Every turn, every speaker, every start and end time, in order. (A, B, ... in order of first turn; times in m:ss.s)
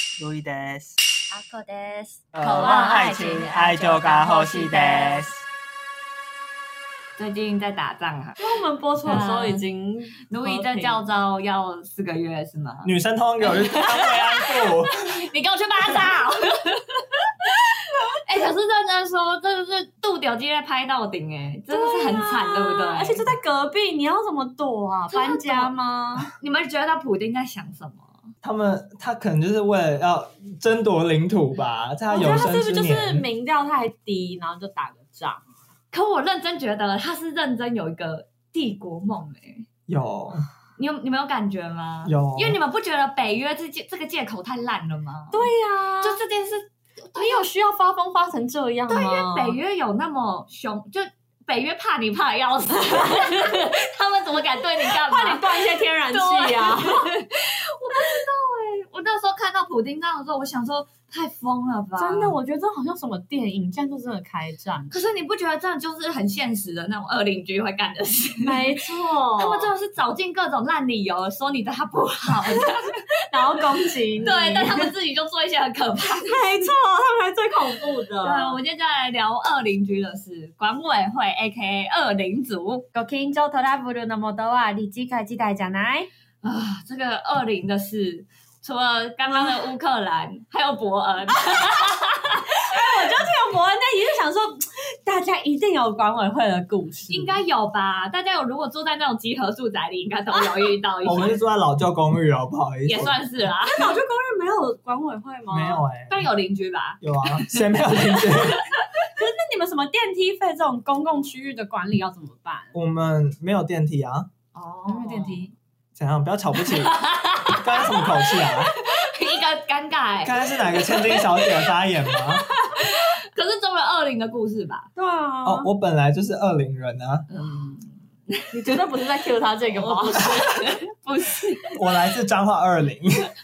0:00.2-0:01.0 A
0:01.4-0:05.3 B
0:02.3-0:05.4 A
0:07.2-0:08.4 B
0:08.4-0:11.0 C
0:09.0-0:09.6 B
0:10.3-0:23.2 B
0:12.8-0:15.0 A
0:21.7-0:26.3 C
0:25.1-0:25.7 B
0:26.4-0:28.2 B
0:28.4-0:33.2 A
0:32.1-0:35.4 C
0:35.9-0:39.7 B
0:39.9-0:40.5 A
0:40.8-0:45.4 B
0:42.0-0:42.6 A
0:45.3-0:46.2 C
0:46.0-0:47.4 B
0:47.2-0:49.6 C
0:48.9-1:02.3 B
0:54.9-0:57.1 C
1:02.0-1:04.9 C
1:04.9-1:08.8 B
1:08.4-1:09.7 C
1:09.4-1:13.7 B
1:13.3-1:14.9 C
1:14.2-1:16.7 B
1:16.2-1:18.6 C
1:18.2-1:22.8 B
1:22.9-1:26.1 C
1:26.4-1:33.0 B
1:29.3-1:29.6 C
1:32.5-1:37.4 C
1:37.1-1:41.4 B
1:41.0-1:43.2 A
1:42.9-1:44.0 B
1:43.7-1:45.9 C
1:45.5-1:46.3 A
1:46.1-1:47.5 B
1:47.0-1:48.6 A
1:48.1-1:48.9 B
1:49.1-1:52.7 C
1:52.7-1:54.3 A
1:54.5-1:55.5 B
1:54.9-1:55.5 C
1:56.0-1:57.0 A
1:56.6-2:04.9 B
1:57.5-1:58.7 A
2:00.2-2:02.5 A
2:05.0-2:05.7 C
2:05.4-2:07.3 A
2:07.3-2:08.5 B
2:08.5-2:11.4 C
2:09.7-2:11.8 B
2:11.8-2:13.3 A